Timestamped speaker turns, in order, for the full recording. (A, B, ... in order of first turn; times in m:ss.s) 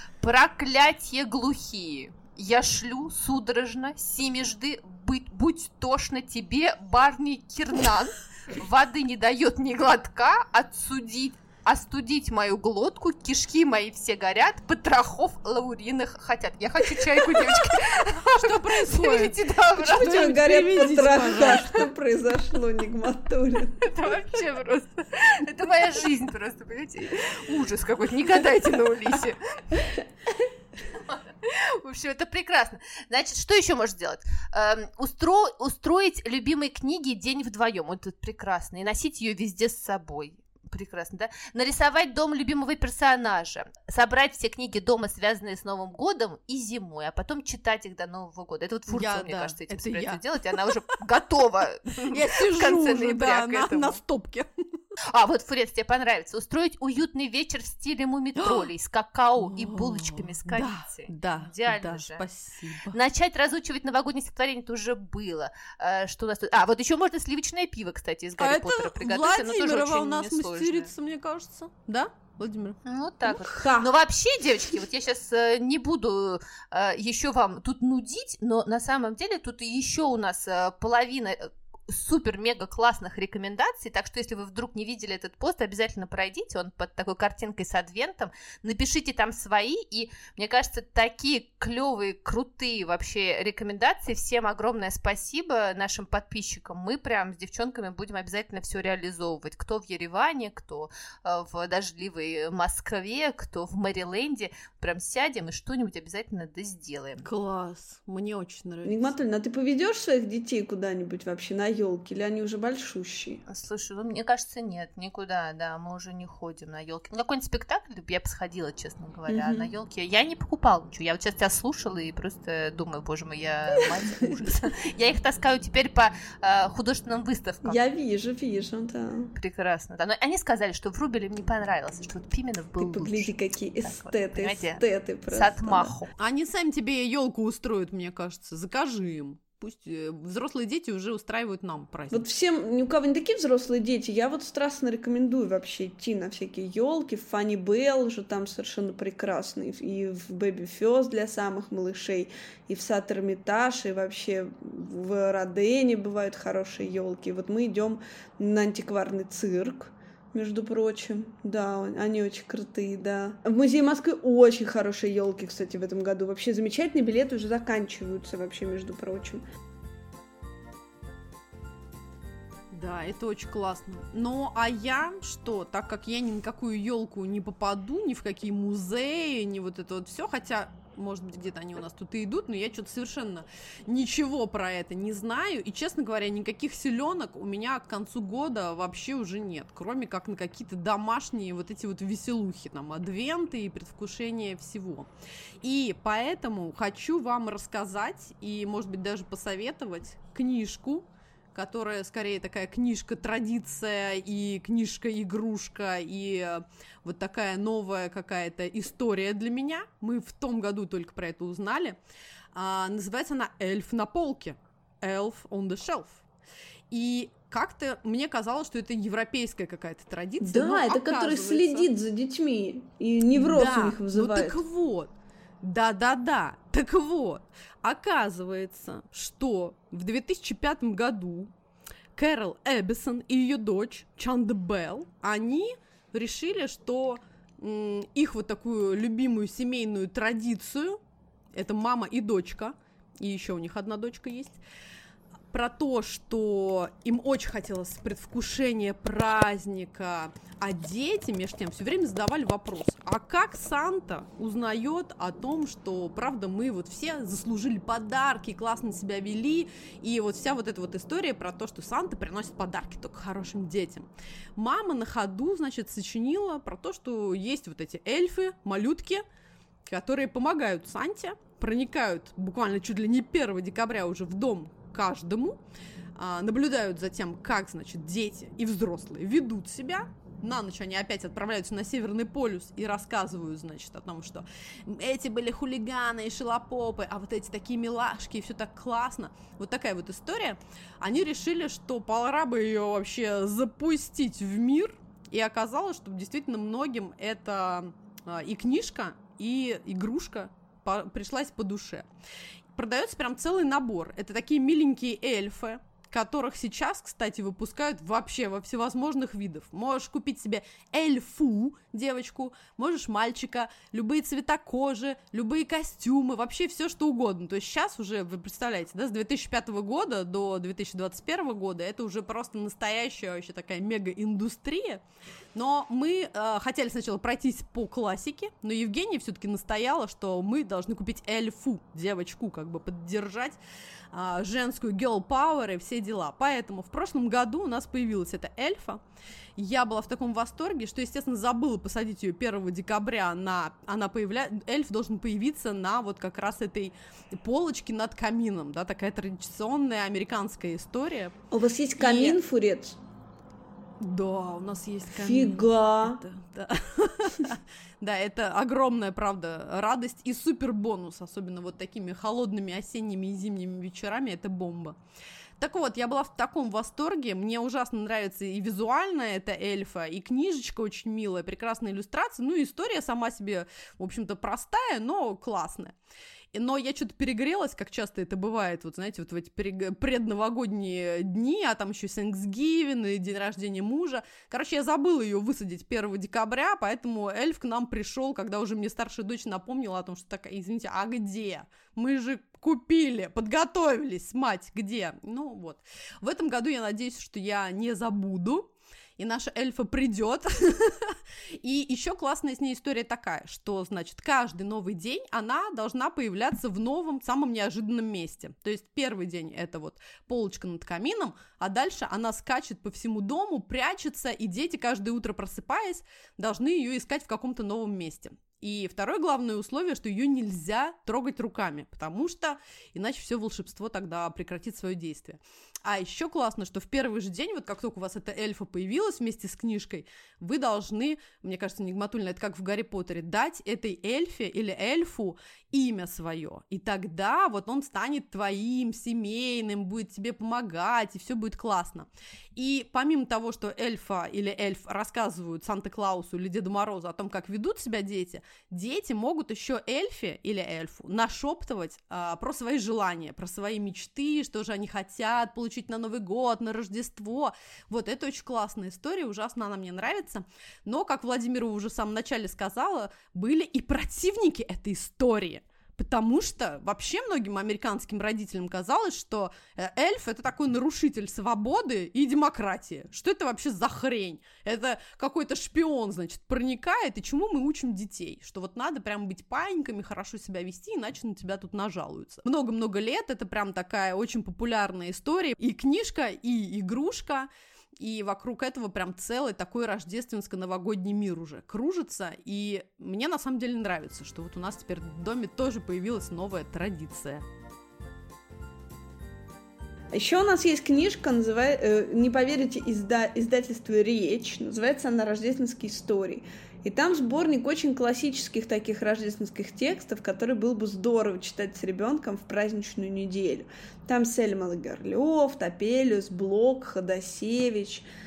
0:00.2-0:20.4 A
0:18.2-0:21.9 B
0:19.8-0:23.8 C
0:21.3-0:21.7 A
0:23.8-0:30.0 A
0:30.9-0:54.0 A
0:48.9-0:50.6 B
0:52.1-0:54.5 B
0:55.1-1:02.3 A
0:58.4-0:58.7 B
0:59.4-1:03.0 B
1:02.9-1:10.9 A
1:08.4-1:12.8 B
1:12.8-1:47.2 A
1:13.4-1:13.9 C
1:47.2-1:49.2 B
1:48.8-1:53.4 C
1:53.5-2:07.8 A
1:59.3-1:59.7 C
2:07.6-2:09.3 C
2:09.4-2:16.1 A
2:12.8-2:16.0 C
2:16.2-2:22.3 B
2:22.1-2:49.4 C
2:52.7-3:15.1 B
3:15.6-3:32.0 B
3:32.5-3:36.2 B
3:36.9-3:41.9 B
3:40.4-3:44.6 C
3:43.3-3:51.5 B
3:52.2-4:01.0 B
4:01.5-4:04.6 B
4:05.5-4:29.2 B
4:29.8-4:35.6 B
4:36.2-5:02.1 B
5:02.7-5:25.0 B
5:25.6-5:33.6 B
5:34.1-5:39.0 B
5:39.6-5:51.4 B
5:51.5-5:53.0 C
5:52.0-5:52.4 B
5:54.0-6:05.0 B
5:55.2-5:56.2 C
6:05.6-6:16.0 B
6:16.5-8:07.5 B
8:08.0-8:17.4 B
8:20.1-8:38.1 C